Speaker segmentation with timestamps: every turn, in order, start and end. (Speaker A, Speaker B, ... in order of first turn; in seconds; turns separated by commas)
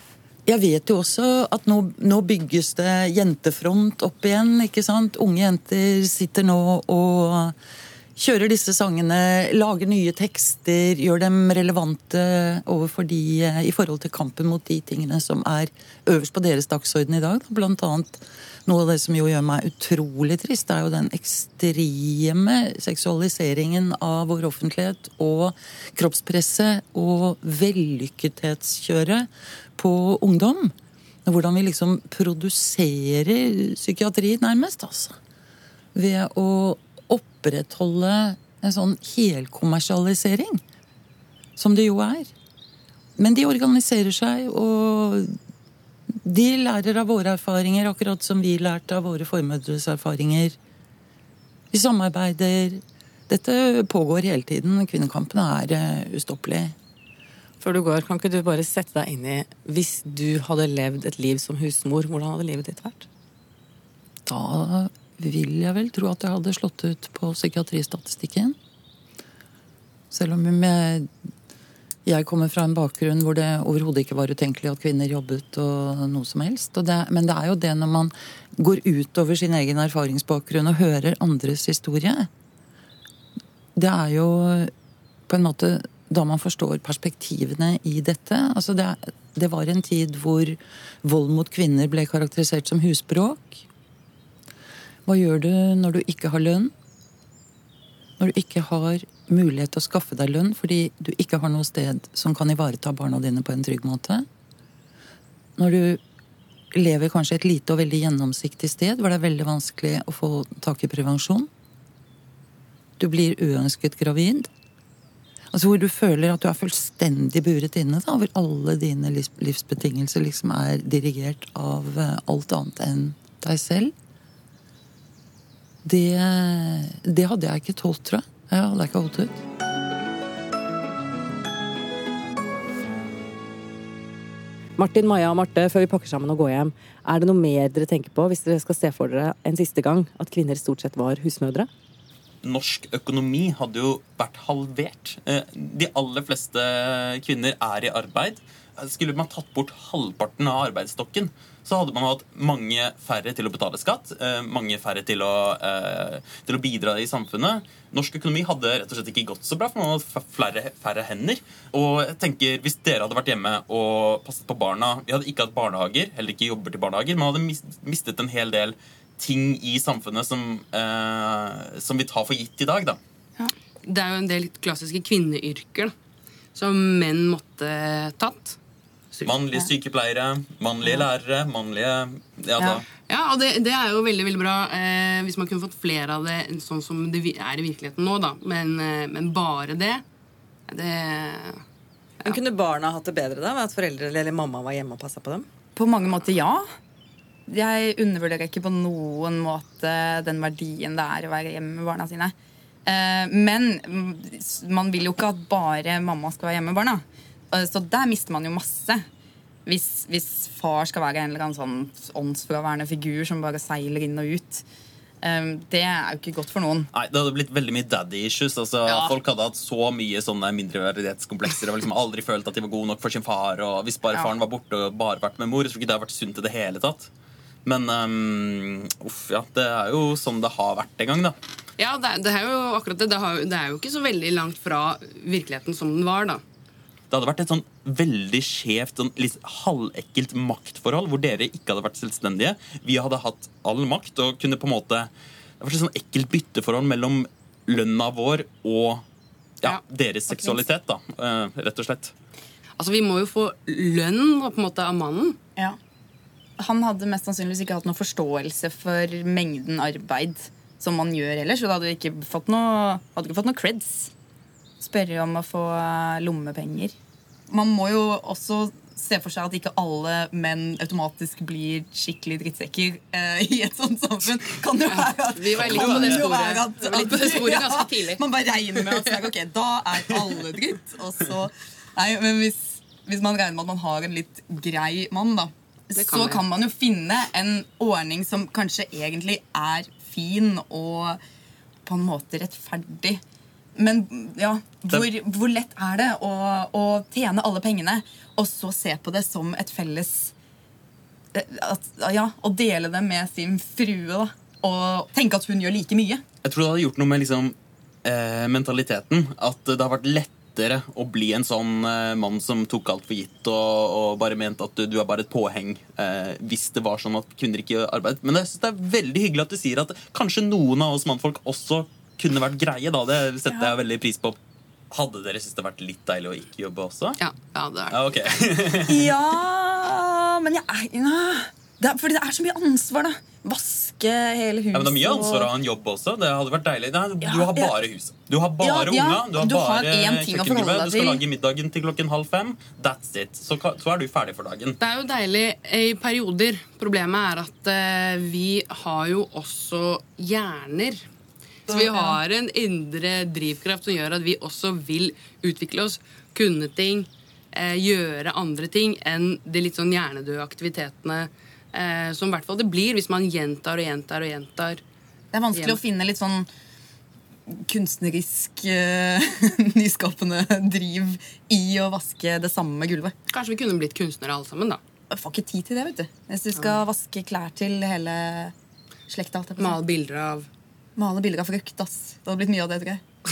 Speaker A: 0.5-7.5, Speaker A: 8.2-30.7, Speaker A: 31.3-35.2, Speaker A: 36.0-40.6, Speaker A: 41.6-42.3, Speaker A: 43.2-45.3, Speaker A: 46.2-50.6, Speaker A: 51.7-56.7, Speaker B: 57.6-63.1, Speaker A: 64.3-68.6, Speaker A: 70.1-71.1, Speaker A: 72.1-82.3, Speaker A: 83.8-84.7, Speaker A: 85.3-93.6, Speaker A: 95.1-96.7, Speaker A: 98.2-104.3, Speaker A: 105.6-106.0, Speaker A: 106.8-111.5, Speaker A: 113.0-114.5, Speaker A: 115.5-123.9, Speaker A: 125.8-129.4, Speaker B: 134.8-141.7, Speaker C: 142.4-173.0, Speaker D: 173.8-175.9, Speaker D: 176.6-178.6, Speaker C: 179.2-182.8, Speaker D: 183.1-190.0, Speaker D: 190.7-191.6, Speaker B: 192.2-195.5, Speaker E: 195.7-196.7, Speaker E: 197.5-202.3, Speaker E: 202.9-209.1, Speaker E: 209.7-214.7, Speaker E: 215.2-216.9, Speaker C: 216.9-227.1, Speaker E: 218.9-219.1, Speaker C: 227.7-231.3, Speaker D: 231.8-236.4, Speaker C: 237.1-249.0, Speaker C: 249.6-252.1, Speaker D: 252.8-255.4, Speaker E: 256.6-264.1, Speaker E: 264.8-266.9, Speaker E: 267.5-291.2, Speaker D: 274.9-278.2, Speaker C: 275.6-276.4, Speaker D: 286.0-286.4, Speaker E: 291.9-293.2, Speaker E: 293.8-300.3, Speaker E: 301.3-306.2, Speaker C: 306.4-324.4, Speaker C: 324.9-327.2, Speaker D: 327.2-328.0, Speaker C: 327.9-329.1, Speaker E: 328.9-335.5, Speaker C: 334.7-344.8, Speaker E: 337.2-337.7, Speaker E: 338.6-341.2, Speaker D: 344.8-351.1, Speaker D: 351.7-364.8, Speaker E: 351.7-352.2, Speaker E: 365.3-366.5, Speaker D: 365.5-365.8, Speaker E: 367.5-373.1, Speaker D: 373.3-374.8, Speaker E: 375.1-378.5, Speaker E: 379.1-379.8, Speaker D: 379.6-380.5, Speaker E: 381.0-383.0